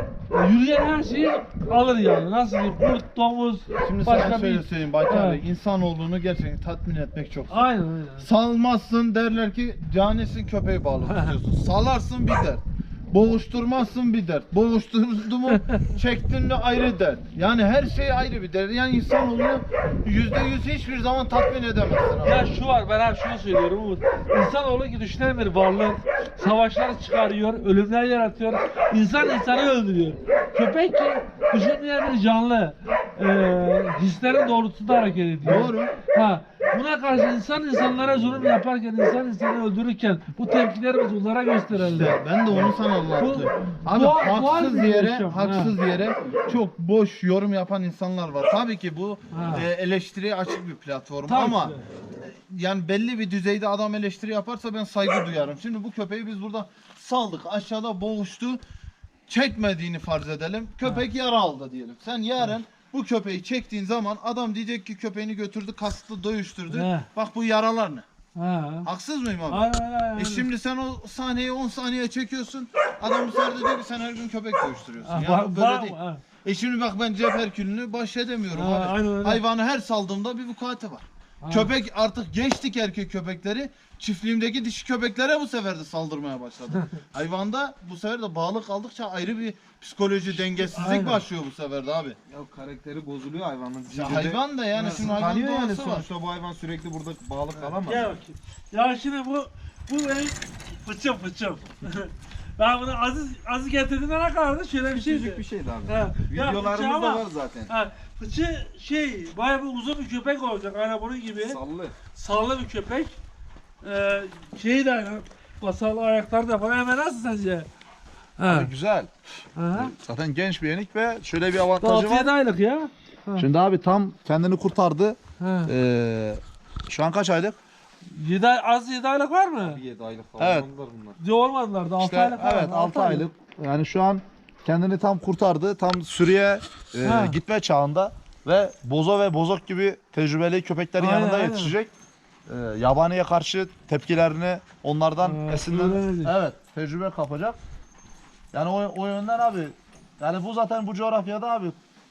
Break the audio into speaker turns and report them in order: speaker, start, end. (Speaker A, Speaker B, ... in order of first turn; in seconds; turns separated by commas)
Speaker A: 0.3-5.4, Speaker B: 3.8-22.4, Speaker A: 7.5-8.3, Speaker A: 22.2-45.7, Speaker B: 35.4-35.9, Speaker B: 41.7-58.6, Speaker A: 49.3-49.6, Speaker A: 51.3-51.8, Speaker B: 59.3-68.0, Speaker A: 66.7-67.1, Speaker A: 68.3-68.9, Speaker B: 68.8-92.2, Speaker A: 69.5-70.5, Speaker A: 75.0-76.2, Speaker A: 78.5-79.4, Speaker A: 81.4-81.7, Speaker A: 90.3-91.2, Speaker C: 92.3-98.1, Speaker B: 93.9-96.1, Speaker A: 94.7-95.1, Speaker A: 97.8-111.6, Speaker C: 104.9-107.7, Speaker C: 111.4-111.9, Speaker A: 112.1-113.2, Speaker A: 113.8-117.7, Speaker A: 118.4-118.7, Speaker D: 118.5-119.1, Speaker A: 119.5-119.9, Speaker D: 119.7-122.3, Speaker A: 121.8-123.5, Speaker D: 123.4-127.6, Speaker A: 125.4-125.7, Speaker A: 128.1-129.8, Speaker C: 129.6-131.2, Speaker D: 130.4-130.7, Speaker A: 131.2-133.3, Speaker D: 132.0-141.9, Speaker A: 137.0-137.4, Speaker A: 141.0-141.7, Speaker D: 142.5-147.6, Speaker A: 145.2-146.3, Speaker D: 148.5-151.8